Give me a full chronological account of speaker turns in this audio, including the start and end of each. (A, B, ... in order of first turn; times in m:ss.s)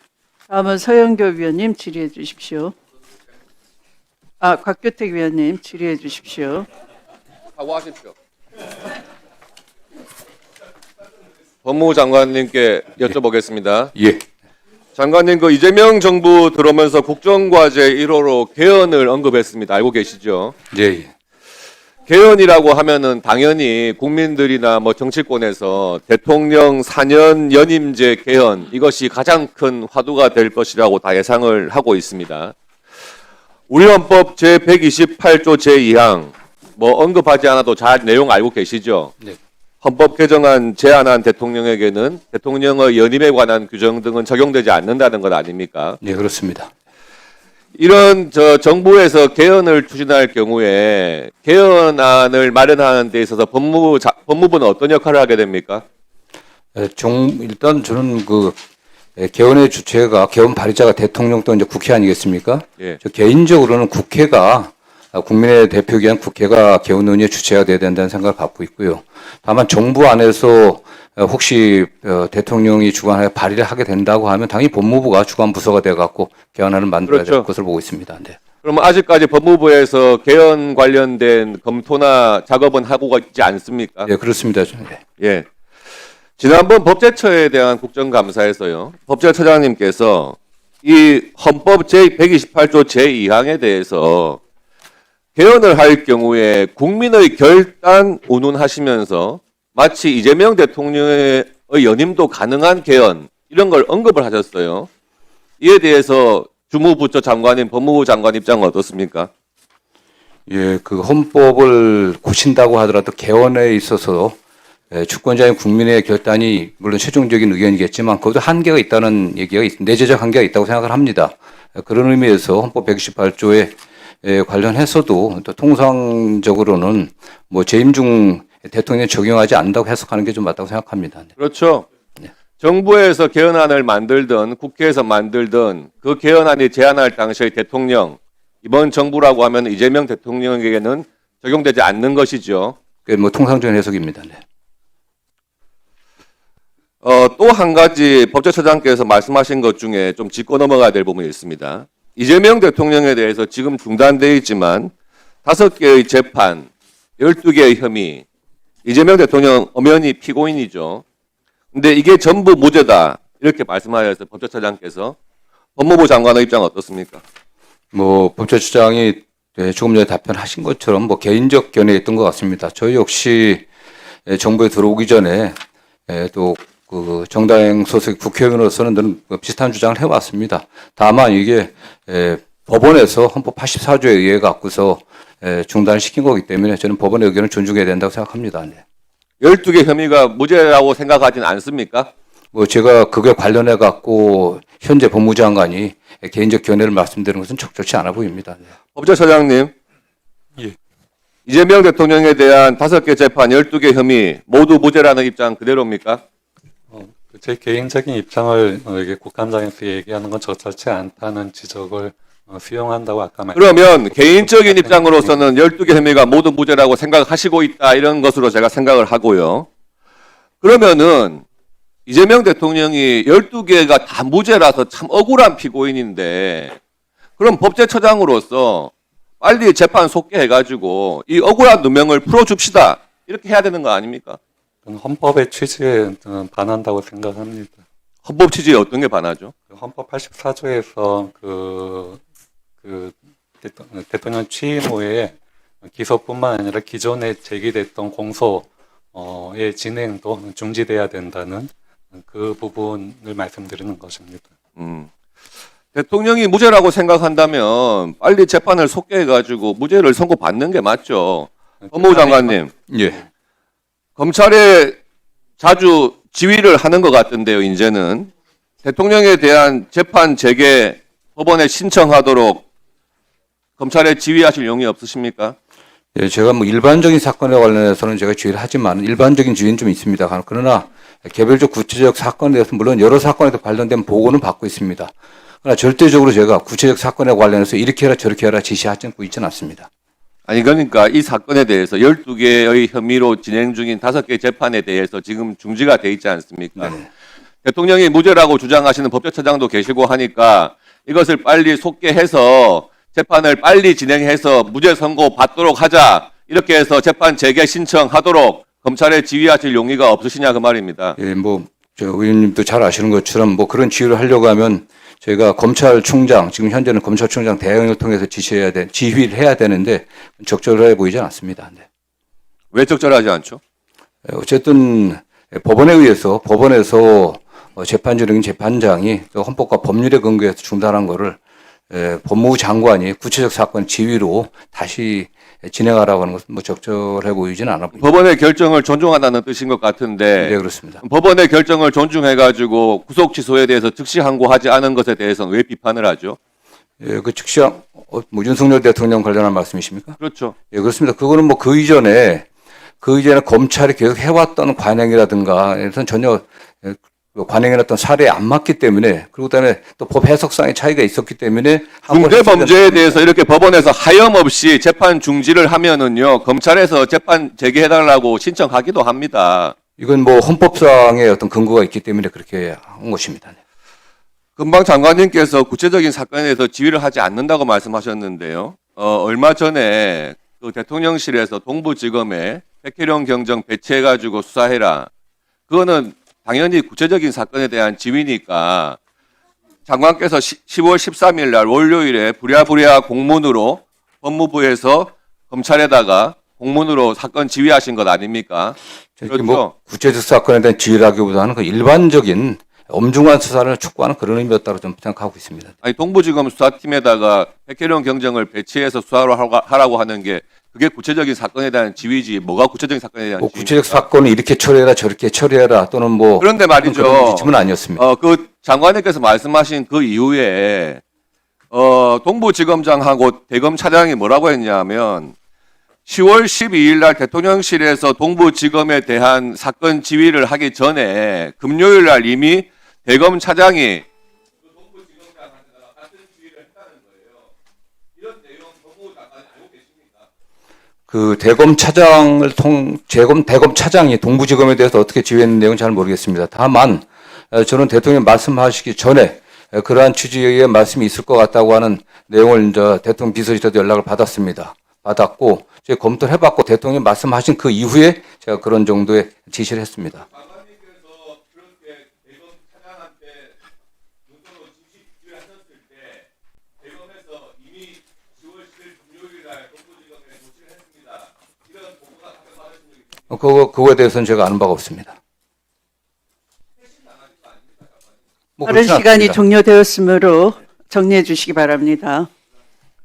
0:00.5-0:02.7 A
0:04.4-0:06.7 A
0:07.6-0:08.1 B
0:11.6-0:13.9 B
0:14.0-0:14.2 C
0:15.0-0:20.5 B
0:20.7-0:21.1 C
0:22.1-0:32.5 B
0:33.7-0:39.1 B
0:39.8-0:46.0 B
0:46.0-0:46.7 C
0:47.8-0:55.8 B
0:56.8-0:58.6 C
0:59.2-1:18.4 C
1:17.1-1:17.5 B
1:18.6-1:24.1 B
1:24.1-1:25.0 C
1:25.2-1:25.5 B
1:26.4-1:34.4 B
1:35.4-1:44.9 B
1:45.6-1:49.3 B
1:50.5-1:54.4 C
1:54.9-2:11.3 C
2:11.4-2:11.9 B
2:12.6-2:22.8 B
2:23.1-2:24.4 C
2:27.0-2:34.9 B
2:35.4-2:38.2 B
2:38.8-2:41.0 B
2:41.7-2:45.2 B
2:45.8-2:47.2 B
2:47.9-2:53.7 C
2:54.3-2:55.6 C
2:56.1-3:08.8 C
3:09.4-3:12.1 B
3:12.5-3:18.6 C
3:19.0-3:19.7 B
3:21.5-3:26.2 B
3:26.9-3:33.6 D
3:33.5-3:39.7 B
3:40.6-3:41.4 B
3:42.1-3:46.8 B
3:47.4-3:54.4 B
3:54.8-3:57.8 D
3:58.2-3:59.5 B
3:59.7-4:02.2 D
4:02.8-4:14.5 D
4:14.8-4:15.1 B
4:15.9-4:22.7 B
4:22.9-4:23.2 C
4:24.2-4:25.0 B
4:25.6-4:28.3 B
4:28.8-4:32.7 B
4:33.8-4:35.6 B
4:36.2-4:49.9 C
4:50.5-4:57.0 B
4:56.8-4:57.1 C
4:57.6-5:11.2 B
5:11.2-5:21.8 C
5:22.7-5:23.6 B
5:24.2-5:31.4 C
5:31.9-5:38.1 C
5:38.0-5:46.4 B
5:40.4-5:41.0 C
5:47.0-5:50.2 C
5:50.2-5:50.5 B
5:50.7-5:52.5 C
5:53.0-6:03.2 C
6:02.1-6:09.7 B
6:10.0-6:13.6 C
6:14.6-6:25.1 B
6:25.7-6:29.0 B
6:29.9-6:38.8 B
6:39.2-6:45.7 C
6:39.3-6:39.7 B
6:45.8-6:54.0 B
6:53.4-6:58.0 C
6:56.4-7:01.0 B
7:01.7-7:05.4 B
7:06.1-7:14.1 B
7:14.6-7:17.5 B
7:18.2-7:20.3 B
7:21.1-7:40.2 C
7:40.2-7:43.6 B
7:44.3-7:46.3 B
7:46.8-7:53.2 B
7:53.3-7:55.2 C
7:56.8-7:58.1 B
7:58.6-7:59.4 C
7:58.6-8:02.3 A